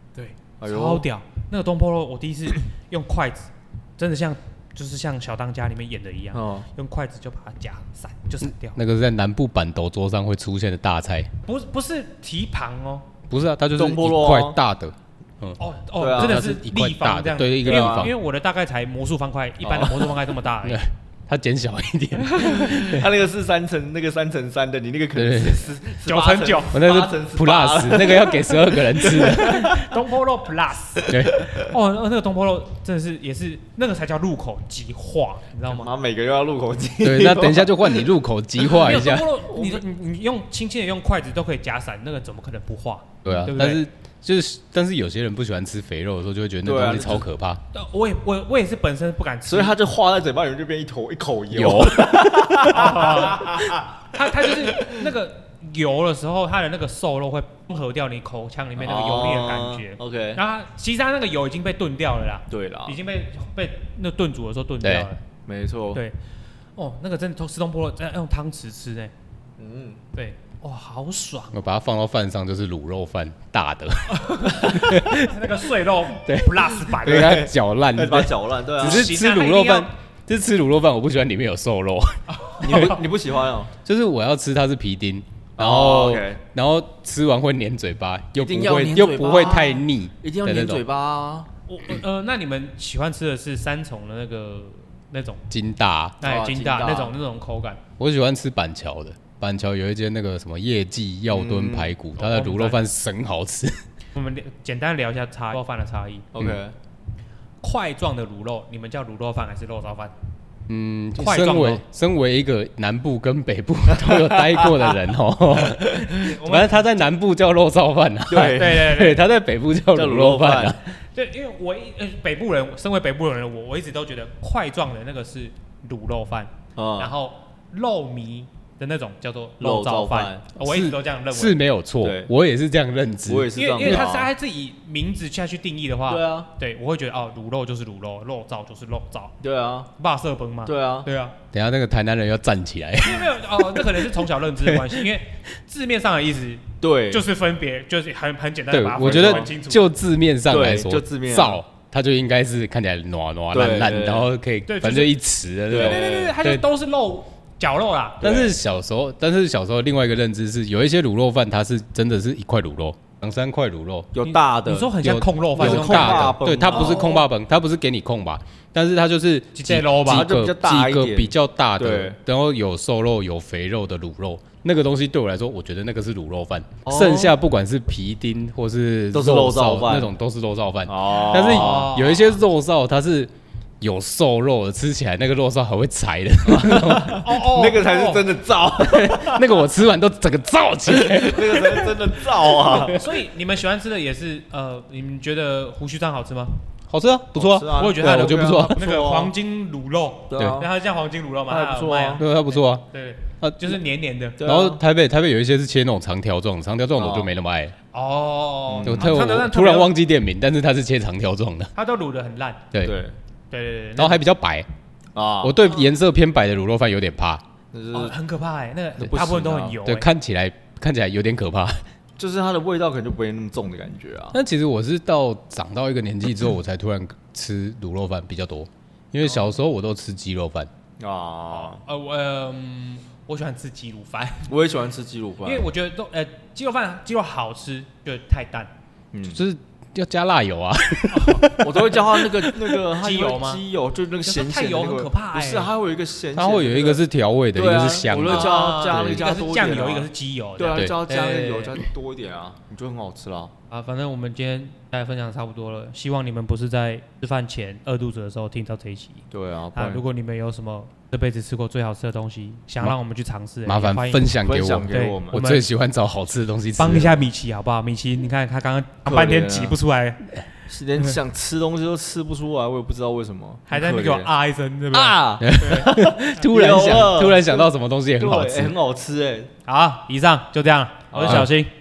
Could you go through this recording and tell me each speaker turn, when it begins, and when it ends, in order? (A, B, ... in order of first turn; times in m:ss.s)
0:00.2-0:08.8 A
0:00.6-0:01.0 B
0:06.3-0:06.7 B
0:08.4-0:11.3 C
0:11.4-0:13.1 A
0:13.3-0:15.6 C
0:13.8-0:14.6 B
0:15.6-0:20.8 A
0:16.0-0:16.4 B
0:16.2-0:18.1 C
0:17.6-0:18.1 B
0:19.6-0:20.3 B
0:20.6-0:23.1 C
0:22.2-0:23.0 A
0:22.4-0:29.7 B
0:25.1-0:25.7 C
0:26.0-0:26.9 A
0:26.7-0:29.8 C
0:29.0-0:35.9 A
0:31.0-0:31.7 B
0:31.1-0:31.4 C
0:35.7-0:38.1 B
0:37.0-0:39.3 C
0:38.7-0:43.8 A
0:39.5-0:39.8 B
0:43.2-0:47.6 C
0:46.6-0:47.2 B
0:47.7-0:49.7 A
0:49.5-0:53.8 B
0:51.5-0:52.2 C
0:52.6-1:05.2 A
0:54.7-0:55.0 B
0:58.8-1:00.4 B
1:02.5-1:03.0 B
1:04.8-1:05.1 C
1:05.5-1:06.0 B
1:06.8-1:09.1 A
1:09.6-1:10.0 B
1:10.1-1:11.6 A
1:11.5-1:15.5 C
1:14.2-1:17.4 A
1:16.2-1:22.9 C
1:17.0-1:19.1 B
1:18.8-1:19.9 A
1:22.3-1:23.0 A
1:22.6-1:23.7 B
1:23.8-1:30.8 C
1:25.6-1:26.4 B
1:28.4-1:31.5 B
1:31.7-1:35.5 A
1:35.5-1:36.2 C
1:36.2-1:37.8 A
1:36.2-1:37.1 B
1:38.0-1:43.8 C
1:41.3-1:41.9 B
1:42.2-1:42.8 A
1:44.1-1:46.3 A
1:46.3-1:46.7 B
1:47.6-1:50.1 A
1:50.7-2:00.9 C
1:51.2-1:51.8 A
1:54.1-1:54.8 B
1:55.8-1:56.1 B
1:56.1-1:57.1 A
1:58.3-1:59.1 B
1:58.4-1:59.2 A
1:59.9-2:00.8 B
2:01.1-2:11.6 A
2:06.8-2:07.1 B
2:09.6-2:10.4 B
2:10.6-2:14.2 C
2:12.0-2:12.3 B
2:13.2-2:14.3 B
2:13.5-2:19.3 A
2:16.1-2:16.5 B
2:19.4-2:19.9 B
2:20.0-2:21.4 A
2:20.6-2:21.1 B
2:21.5-2:23.8 C
2:23.0-2:29.9 A
2:24.6-2:25.0 C
2:26.8-2:27.3 B
2:28.7-2:36.6 C
2:29.0-2:29.5 B
2:30.5-2:31.6 B
2:33.5-2:34.3 B
2:34.6-2:35.2 A
2:35.7-2:36.3 B
2:35.7-2:38.3 A
2:38.2-2:44.1 C
2:38.2-2:38.5 B
2:44.1-2:44.9 B
2:44.2-2:47.2 A
2:45.0-3:07.2 C
2:45.5-2:47.2 B
2:49.5-2:50.3 A
2:50.1-2:52.2 B
2:56.8-2:57.4 B
2:59.1-3:00.1 B
3:00.9-3:02.0 B
3:01.4-3:02.4 A
3:06.4-3:09.5 B
3:07.1-3:08.3 A
3:08.8-3:13.0 C
3:10.9-3:13.0 B
3:12.7-3:16.6 A
3:16.9-3:18.9 C
3:17.4-3:19.3 B
3:17.7-3:24.4 A
3:20.3-3:20.7 B
3:20.3-3:20.6 C
3:21.5-3:22.2 B
3:22.2-3:22.8 C
3:23.4-3:23.8 C
3:24.4-3:24.8 B
3:24.4-3:27.7 C
3:27.0-3:27.3 B
3:27.9-3:29.9 A
3:28.7-3:29.0 B
3:28.8-3:31.7 C
3:31.7-3:32.7 A
3:32.8-3:33.1 B
3:33.5-3:34.2 A
3:34.0-3:34.7 C
3:35.1-3:35.6 B
3:35.4-3:37.4 C
3:37.7-3:38.2 B
3:37.9-3:40.1 A
3:39.0-3:39.8 B
3:39.8-3:41.8 C
3:42.2-3:44.4 B
3:44.3-3:50.7 C
3:49.2-3:49.5 A
3:51.0-3:51.8 B
3:51.5-3:54.5 A
3:54.5-3:55.7 B
3:55.4-3:58.7 A
3:59.1-3:59.4 B
3:59.3-4:02.7 C
4:01.1-4:01.4 A
4:01.6-4:07.0 B
4:02.9-4:03.6 A
4:04.2-4:05.7 A
4:06.3-4:09.3 C
4:07.5-4:13.5 B
4:08.3-4:11.8 A
4:13.7-4:25.6 A
4:19.3-4:20.0 B
4:23.6-4:27.2 C
4:24.4-4:25.4 B
4:26.8-4:30.3 A
4:29.0-4:29.8 B
4:30.7-4:34.3 B
4:33.7-4:36.1 A
4:34.9-4:39.5 B
4:35.4-4:38.7 C
4:39.7-4:41.7 A
4:41.1-4:41.5 B
4:41.2-4:41.5 C